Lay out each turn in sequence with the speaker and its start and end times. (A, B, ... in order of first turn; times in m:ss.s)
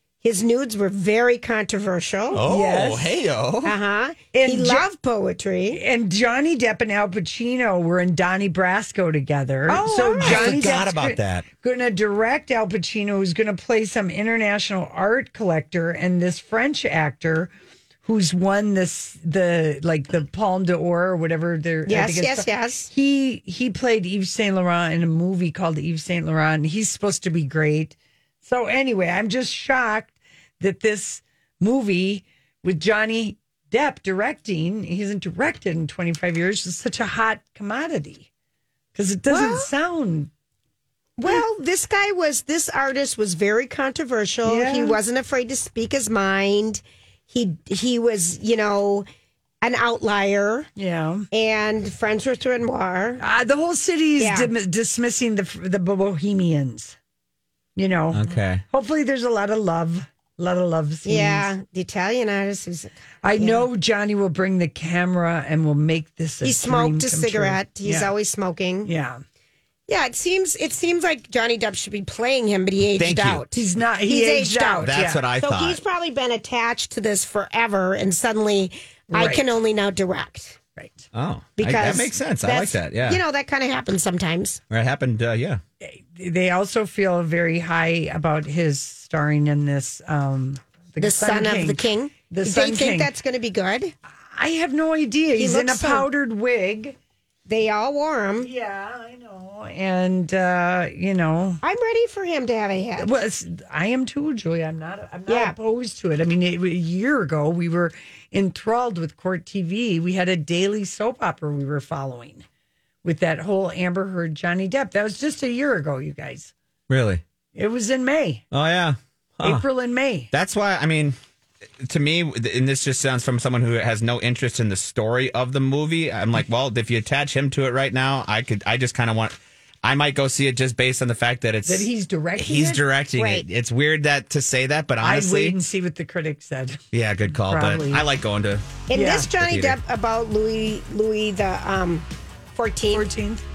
0:00.2-0:02.4 A
0:02.3-0:03.8 B
0:02.4-0:03.2 C
0:03.6-0:05.8 A
0:04.3-0:04.9 C
0:05.7-0:17.5 C
0:09.7-0:10.6 A
0:09.8-0:11.5 B
0:18.0-0:38.3 C
0:21.9-0:22.9 A
0:39.0-0:40.3 C
0:39.3-0:39.7 A
0:41.2-0:49.1 A
0:44.4-0:45.0 C
0:49.6-0:50.7 A
0:50.8-0:51.3 C
0:51.3-0:53.2 A
0:53.2-0:57.0 C
0:54.2-0:54.5 A
0:57.8-1:01.5 C
0:58.1-0:58.6 B
1:01.0-1:03.6 A
1:03.2-1:08.1 C
1:06.4-1:08.9 A
1:08.8-1:09.2 C
1:09.9-1:20.6 A
1:13.0-1:13.4 B
1:13.5-1:15.2 C
1:14.8-1:15.8 B
1:19.1-1:19.5 C
1:20.8-1:21.1 C
1:21.1-1:23.2 B
1:21.6-1:24.6 A
1:24.7-1:25.6 B
1:25.8-1:33.1 C
1:31.0-1:33.9 A
1:34.3-1:37.0 C
1:35.4-1:36.1 A
1:37.5-1:38.5 A
1:38.4-1:41.6 C
1:41.6-1:43.1 A
1:43.0-1:52.4 C
1:45.3-1:45.6 A
1:53.0-1:56.5 C
1:56.9-1:57.2 B
1:57.6-1:58.4 C
1:58.5-1:59.6 B
1:59.4-2:00.3 C
2:00.3-2:01.2 B
2:01.8-2:15.6 B
2:11.7-2:12.8 C
2:13.2-2:13.4 A
2:15.0-2:16.8 C
2:16.9-2:19.8 B
2:17.4-2:18.0 C
2:18.9-2:23.1 A
2:18.9-2:19.3 C
2:22.9-2:23.4 C